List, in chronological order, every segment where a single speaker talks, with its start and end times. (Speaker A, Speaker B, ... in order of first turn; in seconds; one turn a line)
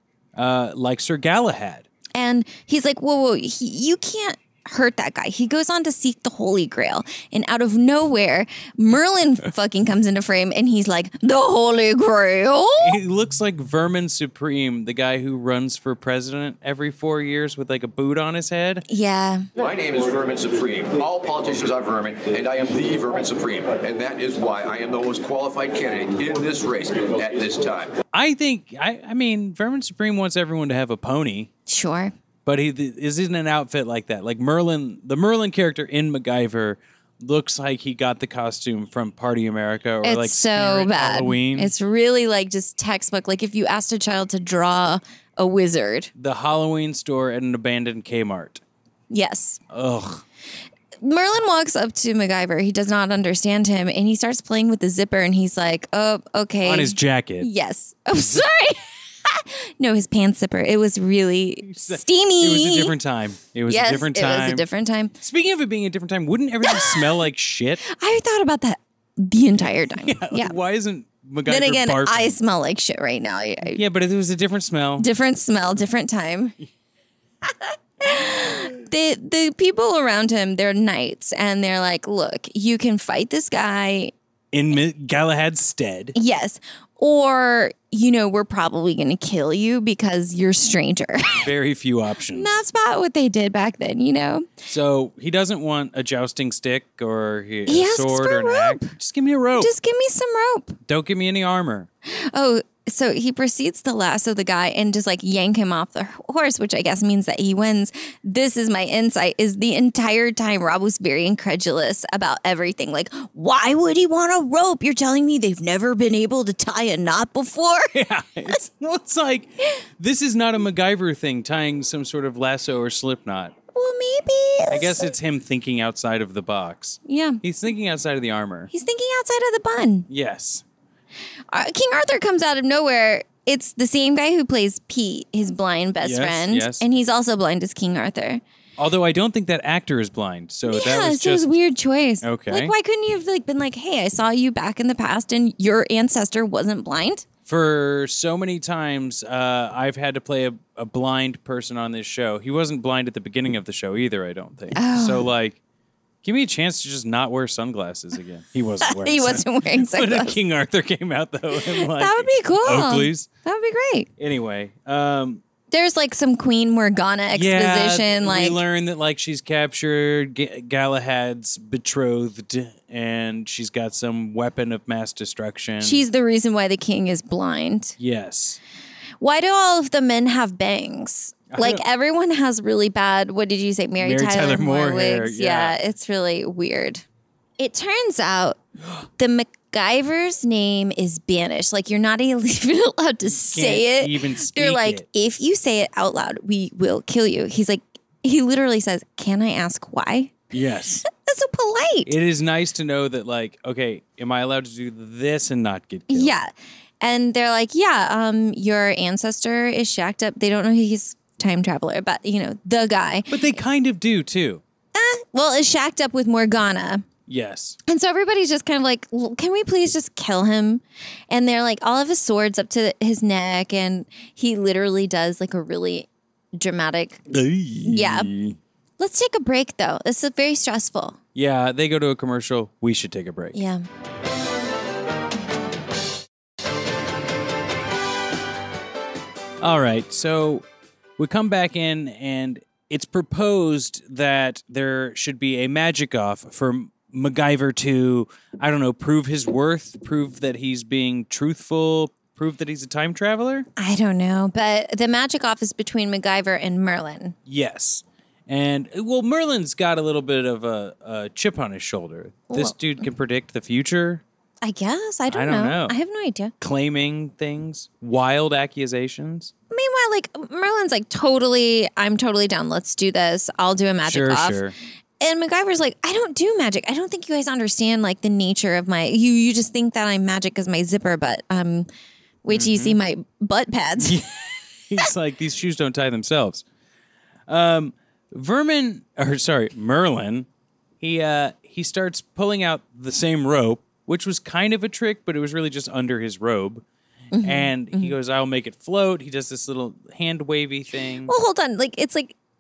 Speaker A: 0.3-1.9
Speaker B: 2.1-13.0
Speaker A: 12.8-18.9
Speaker B: 18.9-19.5
Speaker C: 19.6-27.9
Speaker A: 28.1-31.5
Speaker B: 31.7-32.1
Speaker A: 32.5-41.7
Speaker B: 40.0-46.1
Speaker A: 46.2-48.6
Speaker B: 49.1-49.6
Speaker A: 49.7-50.2
Speaker B: 51.0-62.9
Speaker A: 56.6-57.5
Speaker A: 61.6-64.7
Speaker B: 63.7-65.2
Speaker A: 65.2-67.8
Speaker B: 66.6-67.2
Speaker B: 67.8-70.6
Speaker A: 70.0-72.4
Speaker B: 71.5-73.8
Speaker A: 73.7-75.1
Speaker B: 75.0-76.6
Speaker B: 77.5-84.1
Speaker A: 84.5-86.2
Speaker B: 86.2-91.5
Speaker A: 91.4-92.6
Speaker B: 92.3-94.5
Speaker A: 94.7-99.7
Speaker B: 97.7-98.9
Speaker B: 99.6-100.8
Speaker A: 100.9-101.9
Speaker B: 102.1-118.0
Speaker A: 117.9-123.5
Speaker B: 123.7-125.1
Speaker A: 124.7-128.7
Speaker B: 127.1-127.4
Speaker B: 128.7-130.1
Speaker A: 130.1-130.6
Speaker B: 131.5-138.4
Speaker A: 136.0-136.8
Speaker A: 138.8-141.5
Speaker B: 140.7-147.3
Speaker A: 142.2-142.7
Speaker A: 147.5-155.6
Speaker B: 154.7-155.3
Speaker A: 156.2-163.3
Speaker B: 158.8-160.4
Speaker B: 161.5-164.1
Speaker A: 164.2-165.4
Speaker B: 165.7-168.6
Speaker A: 167.3-176.0
Speaker B: 175.8-178.0
Speaker A: 178.0-178.6
Speaker B: 179.2-187.0
Speaker A: 181.5-181.8
Speaker A: 184.0-185.8
Speaker B: 187.6-188.6
Speaker B: 189.2-200.4
Speaker A: 193.5-195.1
Speaker A: 200.5-201.1
Speaker B: 201.0-202.1
Speaker A: 202.1-206.3
Speaker B: 206.1-213.6
Speaker A: 213.3-214.6
Speaker B: 214.9-217.1
Speaker A: 217.3-217.8
Speaker B: 217.9-227.2
Speaker A: 227.3-228.6
Speaker B: 227.8-228.3
Speaker B: 229.0-231.2
Speaker A: 231.3-233.6
Speaker B: 233.5-233.8
Speaker A: 239.6-240.7
Speaker A: 241.2-253.7
Speaker B: 253.8-257.4
Speaker A: 257.5-264.2
Speaker B: 262.5-262.8
Speaker B: 264.6-266.5
Speaker A: 265.3-266.0
Speaker A: 266.6-269.5
Speaker B: 269.7-274.6
Speaker A: 274.1-274.8
Speaker B: 275.2-281.9
Speaker B: 282.4-284.2
Speaker A: 282.5-282.9
Speaker A: 284.0-286.6
Speaker A: 287.5-290.5
Speaker A: 291.0-296.8
Speaker B: 297.3-298.1
Speaker A: 297.4-301.3
Speaker B: 301.3-302.4